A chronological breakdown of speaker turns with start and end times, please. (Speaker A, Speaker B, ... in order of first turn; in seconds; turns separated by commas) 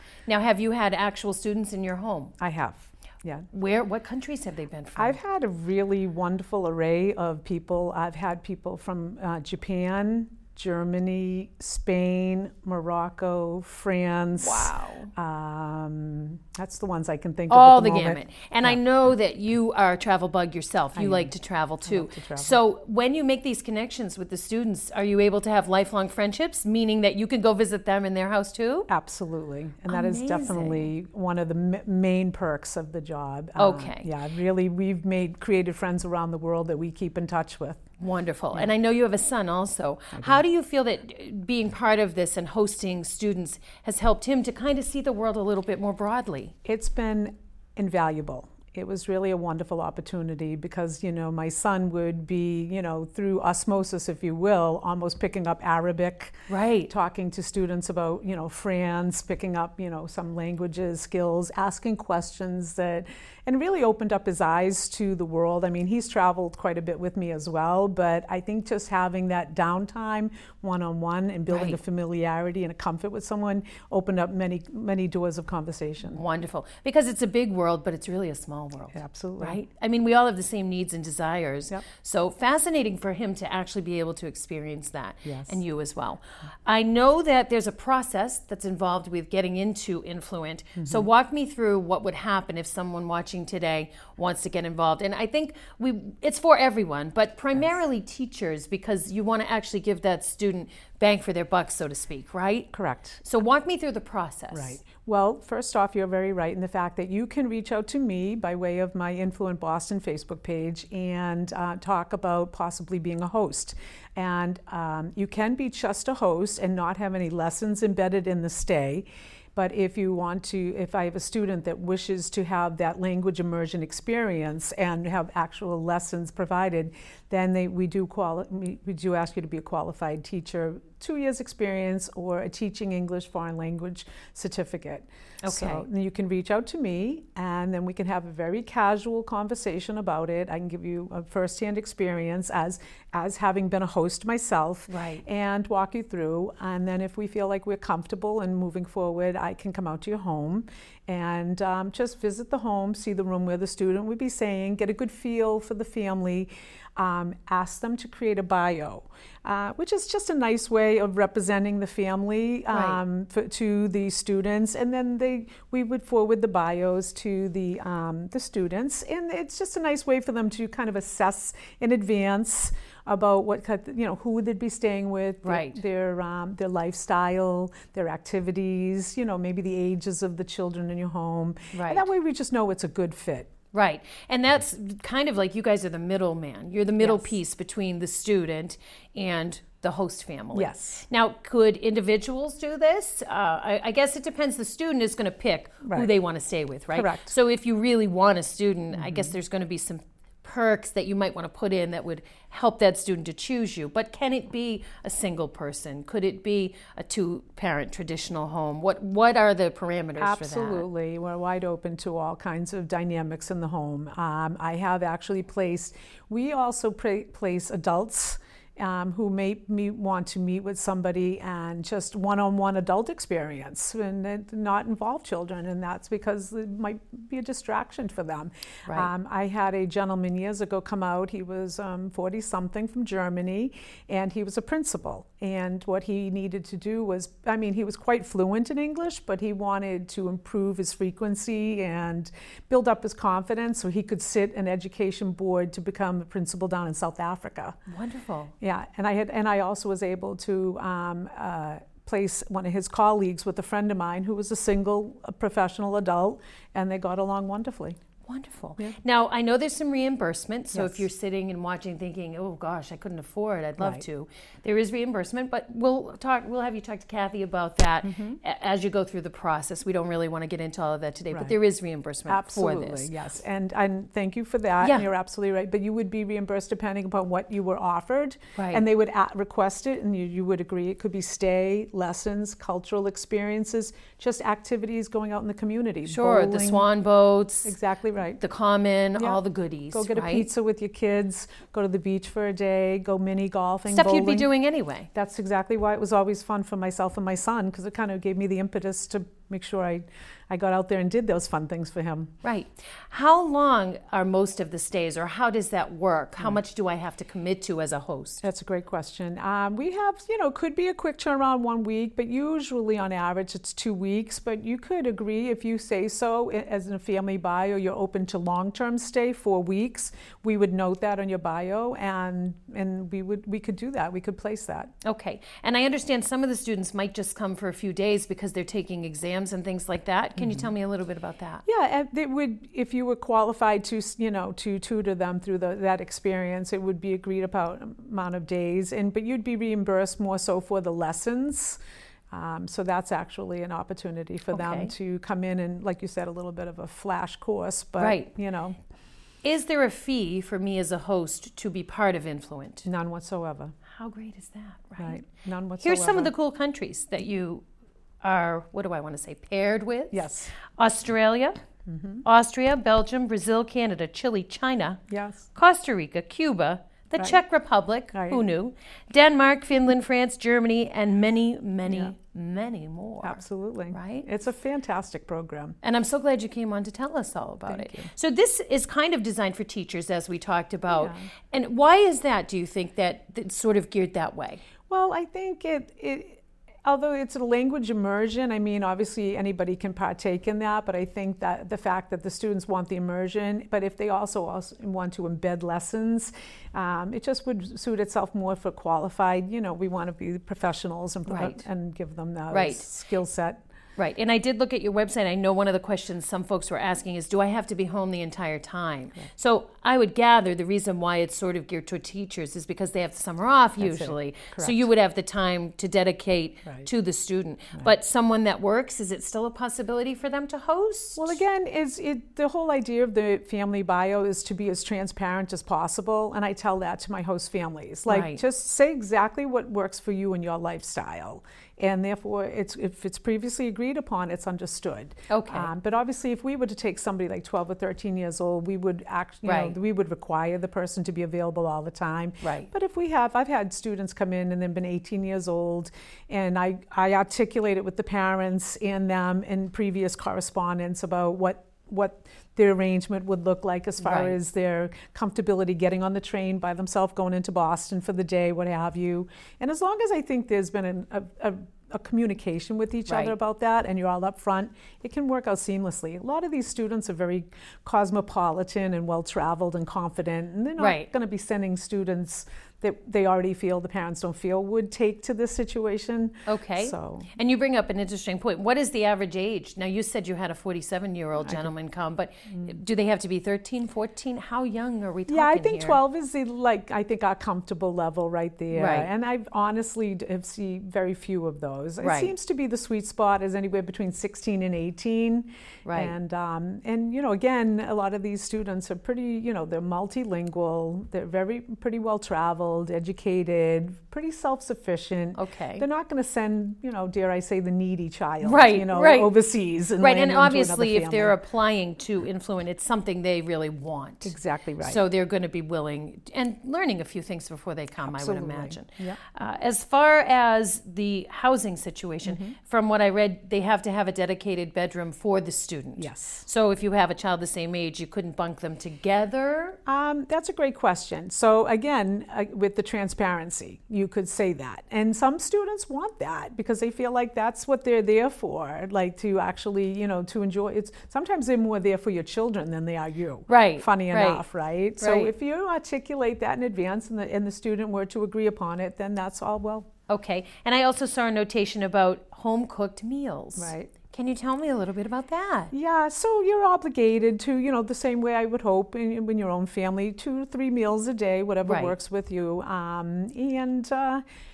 Speaker A: 0.3-2.3, Speaker B: 2.4-3.5, Speaker A: 3.5-5.2, Speaker B: 5.0-18.8, Speaker A: 14.4-15.1, Speaker A: 17.5-28.9, Speaker B: 20.9-21.3, Speaker B: 21.8-22.6, Speaker B: 28.9-37.8, Speaker A: 29.9-30.9, Speaker A: 33.6-34.1, Speaker A: 38.0-46.5, Speaker B: 40.1-40.4, Speaker B: 46.6-76.2, Speaker A: 56.5-56.9, Speaker A: 71.5-71.8, Speaker A: 76.1-102.7, Speaker B: 78.9-79.6, Speaker B: 85.2-85.6, Speaker B: 90.8-91.1, Speaker B: 102.7-103.2, Speaker A: 103.2-104.8, Speaker B: 104.5-183.5, Speaker A: 135.4-135.8, Speaker A: 144.9-145.2, Speaker A: 162.7-163.0, Speaker A: 175.4-175.8, Speaker A: 181.7-182.1, Speaker A: 183.7-210.9, Speaker B: 187.0-187.3, Speaker B: 190.5-191.0, Speaker B: 195.8-196.1, Speaker B: 196.9-197.3, Speaker B: 198.9-199.3, Speaker B: 210.2-247.8, Speaker A: 228.8-229.1, Speaker A: 247.9-248.5, Speaker B: 248.6-258.0, Speaker A: 258.2-273.1, Speaker B: 260.7-261.1, Speaker B: 263.8-264.0, Speaker B: 268.0-268.4, Speaker B: 271.3-271.6, Speaker B: 272.3-286.9, Speaker A: 274.8-275.1, Speaker A: 278.6-278.8, Speaker A: 286.1-287.8, Speaker B: 287.6-288.4, Speaker A: 288.4-290.5, Speaker B: 289.9-294.5, Speaker A: 293.9-295.1, Speaker B: 295.1-302.3, Speaker A: 302.4-308.4, Speaker B: 308.4-324.9, Speaker A: 325.0-331.6, Speaker B: 330.4-330.7, Speaker B: 331.6-341.8, Speaker B: 342.3-348.8, Speaker A: 344.5-344.9, Speaker A: 348.0-348.3, Speaker A: 349.4-352.9, Speaker B: 352.9-353.7, Speaker A: 353.9-355.3, Speaker B: 355.0-356.3, Speaker A: 355.8-357.6, Speaker A: 358.2-361.6, Speaker B: 360.1-360.6, Speaker B: 361.9-362.2, Speaker A: 362.2-365.0, Speaker B: 365.1-365.5, Speaker A: 365.5-374.3, Speaker B: 368.1-368.4, Speaker B: 371.9-372.1, Speaker B: 373.2-375.8, Speaker A: 375.8-384.6, Speaker B: 377.7-378.1, Speaker B: 380.9-381.3, Speaker B: 384.9-403.6, Speaker A: 401.3-401.6, Speaker A: 402.5-402.9, Speaker A: 404.0-421.4, Speaker B: 413.8-414.9, Speaker B: 421.2-477.3, Speaker A: 428.1-428.4, Speaker A: 435.3-435.7, Speaker A: 439.4-439.8, Speaker A: 442.4-442.7, Speaker A: 454.0-454.4, Speaker A: 463.1-463.3, Speaker A: 470.8-471.1, Speaker A: 476.5-486.0, Speaker B: 481.4-481.7, Speaker B: 485.3-511.4, Speaker A: 488.7-489.1, Speaker A: 492.0-492.3, Speaker A: 495.8-496.1, Speaker A: 505.3-505.9, Speaker A: 508.4-509.3, Speaker A: 510.0-529.8, Speaker B: 514.2-515.0, Speaker B: 518.0-519.2, Speaker B: 522.2-522.5, Speaker B: 526.0-526.5, Speaker B: 529.9-549.9, Speaker A: 543.5-544.5, Speaker A: 545.0-545.3, Speaker A: 550.1-555.7, Speaker B: 553.5-553.9, Speaker B: 555.7-564.2, Speaker A: 561.6-561.9